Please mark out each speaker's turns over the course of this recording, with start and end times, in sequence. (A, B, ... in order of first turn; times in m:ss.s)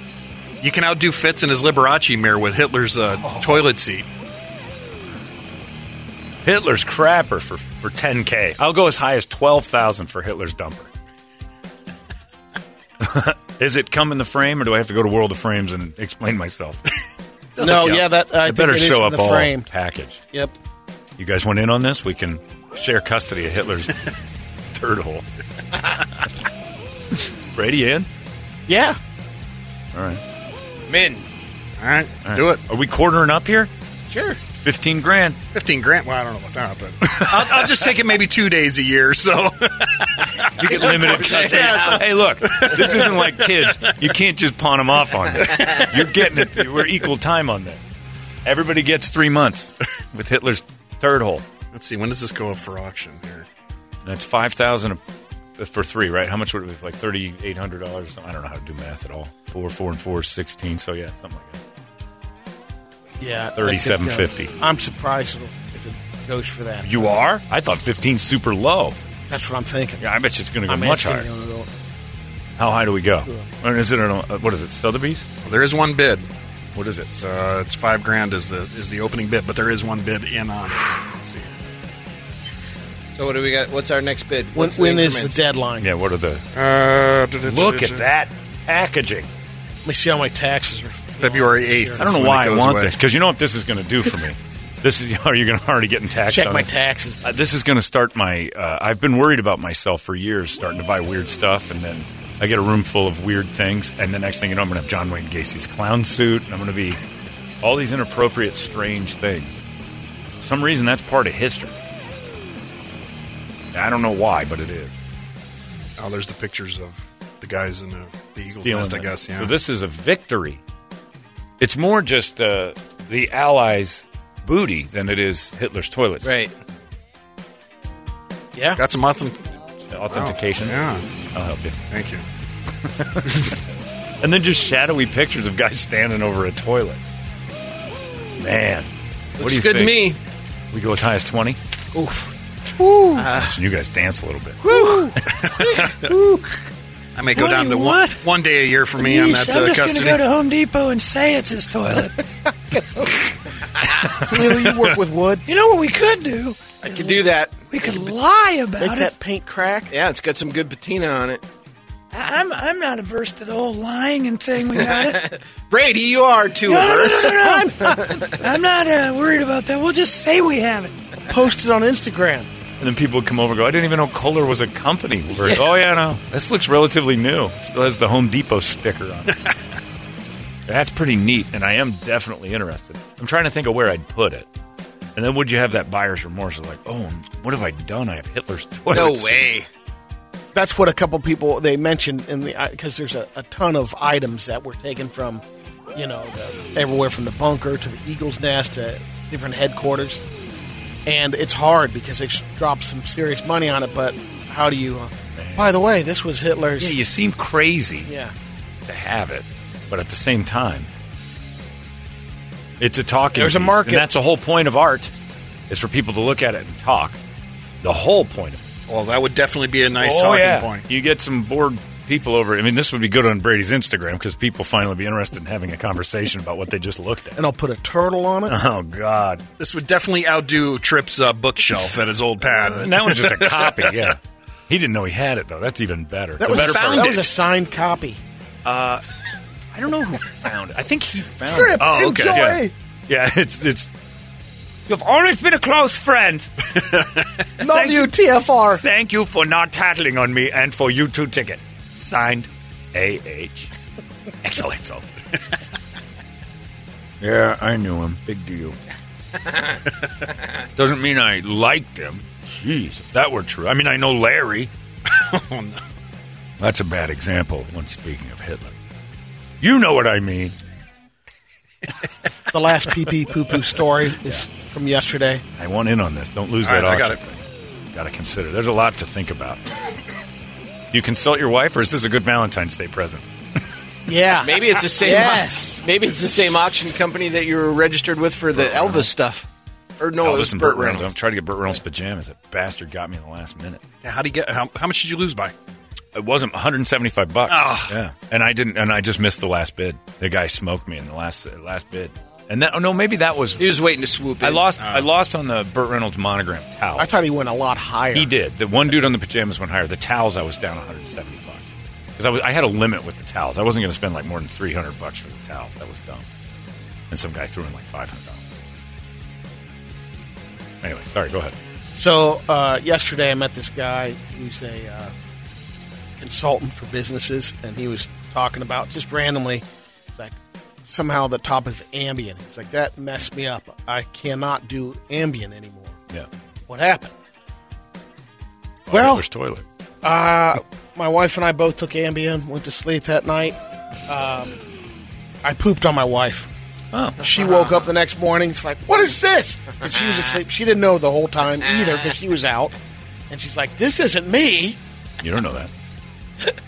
0:00.6-0:04.1 A
0:03.2-0:03.6 B
0:06.4-0:10.9 B
0:13.0-0:16.9 B
0:17.6-0:17.9 A
0:17.6-0:19.7 C
0:17.7-0:20.2 B
0:21.2-0:24.1 B
0:24.7-0:25.2 B
0:27.5-0:28.1 B
0:28.7-0:29.0 C
0:29.9-0:30.2 B
0:30.9-0:31.2 D
0:31.8-0:32.6 A
0:32.2-0:33.7 B
0:34.1-0:34.4 C
0:34.6-0:35.4 B
0:35.5-0:43.9 A
0:37.0-0:37.8 B
0:40.5-0:47.8 B
0:40.8-0:42.0 D
0:48.4-0:51.4 B
0:51.7-0:53.5 A
0:54.0-0:55.0 B
0:55.6-1:01.6 B
1:03.2-1:07.2 C
1:03.6-1:04.5 B
1:06.8-1:09.0 B
1:09.3-1:10.0 C
1:10.0-1:11.3 B
1:10.7-1:11.7 C
1:12.6-1:15.3 B
1:15.4-1:16.3 A
1:16.7-1:17.2 B
1:17.2-1:21.5 A
1:23.1-1:25.4 D
1:24.5-1:25.9 C
1:25.8-1:26.4 B
1:26.5-1:28.0 A
1:27.4-1:29.3 B
1:29.8-1:32.1 C
1:31.2-1:33.0 A
1:32.0-1:36.7 B
1:36.3-1:37.2 C
1:37.2-1:47.0 B
1:47.6-1:49.6 B
1:50.4-1:51.7 B
1:53.7-1:55.0 B
1:56.0-1:59.5 A
1:58.6-2:00.6 B
2:01.6-2:06.3 B
2:06.2-2:06.5 D
2:08.5-2:08.8 C
2:08.8-2:09.4 A
2:09.9-2:10.8 B
2:10.1-2:11.0 A
2:11.3-2:11.8 B
2:11.9-2:12.2 A
2:12.9-2:13.6 B
2:14.2-2:17.0 B
2:18.4-2:20.2 B
2:19.4-2:20.2 D
2:20.7-2:21.6 B
2:21.9-2:23.3 C
2:23.2-2:24.9 B
2:24.6-2:26.5 C
2:25.3-2:26.1 A
2:27.2-2:30.2 A
2:27.3-2:28.3 E
2:28.9-2:32.2 E
2:32.7-2:33.3 C
2:34.0-2:35.4 C
2:35.4-2:37.1 E
2:36.8-2:37.6 D
2:37.7-2:39.1 E
2:38.8-2:39.9 C
2:39.9-2:41.4 D
2:42.1-2:45.3 E
2:44.8-2:47.3 D
2:46.6-2:51.0 E
2:47.3-2:48.2 C
2:48.0-2:48.3 D
2:51.3-2:52.5 C
2:52.8-2:59.4 B
3:00.7-3:04.5 B
3:05.2-3:09.5 B
3:08.9-3:09.7 D
3:10.5-3:15.4 C
3:15.9-3:20.2 C
3:21.0-3:27.0 C
3:25.3-3:25.7 B
3:26.8-3:28.1 B
3:28.1-3:28.3 C
3:28.8-3:30.9 B
3:32.8-3:35.1 B
3:33.3-3:34.0 C
3:35.7-3:37.2 B
3:37.8-3:38.6 B
3:38.9-3:40.8 A
3:40.0-3:47.4 B
3:47.4-3:48.6 C
3:48.5-3:49.4 B
3:49.6-3:53.9 A
3:52.5-3:57.3 B
3:56.4-3:58.2 C
3:56.5-3:57.1 A
3:58.6-3:59.0 B
3:59.7-4:03.9 B
4:01.5-4:02.7 C
4:01.8-4:02.4 A
4:04.9-4:06.7 B
4:06.8-4:07.2 A
4:07.6-4:08.8 C
4:07.6-4:08.1 B
4:08.6-4:13.7 B
4:14.4-4:15.0 B
4:17.2-4:18.8 B
4:20.8-4:24.7 B
4:25.1-4:25.8 A
4:26.6-4:28.7 B
4:29.6-4:30.6 B
4:32.5-4:35.4 C
4:35.6-4:37.4 B
4:36.6-4:37.2 A
4:37.9-4:39.6 B
4:40.9-4:43.2 B
4:44.1-4:45.8 C
4:44.4-4:49.5 D
4:48.6-4:49.1 B
4:50.0-4:51.1 D
4:50.2-4:53.8 B
4:54.0-4:55.5 A
4:56.1-5:03.7 B
4:57.5-4:58.0 A
5:03.6-5:04.7 D
5:04.4-5:07.1 B
5:04.8-5:05.1 A
5:07.0-5:08.3 C
5:08.1-5:16.2 B
5:17.1-5:18.4 B
5:20.8-5:21.5 B
5:21.9-5:25.1 C
5:26.2-5:29.6 C
5:30.2-5:36.0 C
5:36.7-5:37.1 C
5:38.9-5:39.6 B
5:38.9-5:39.2 C
5:40.0-5:44.6 C
5:45.4-5:46.5 C
5:46.9-5:47.2 B
5:47.2-5:52.7 C
5:53.3-5:54.8 C
5:55.2-5:55.7 B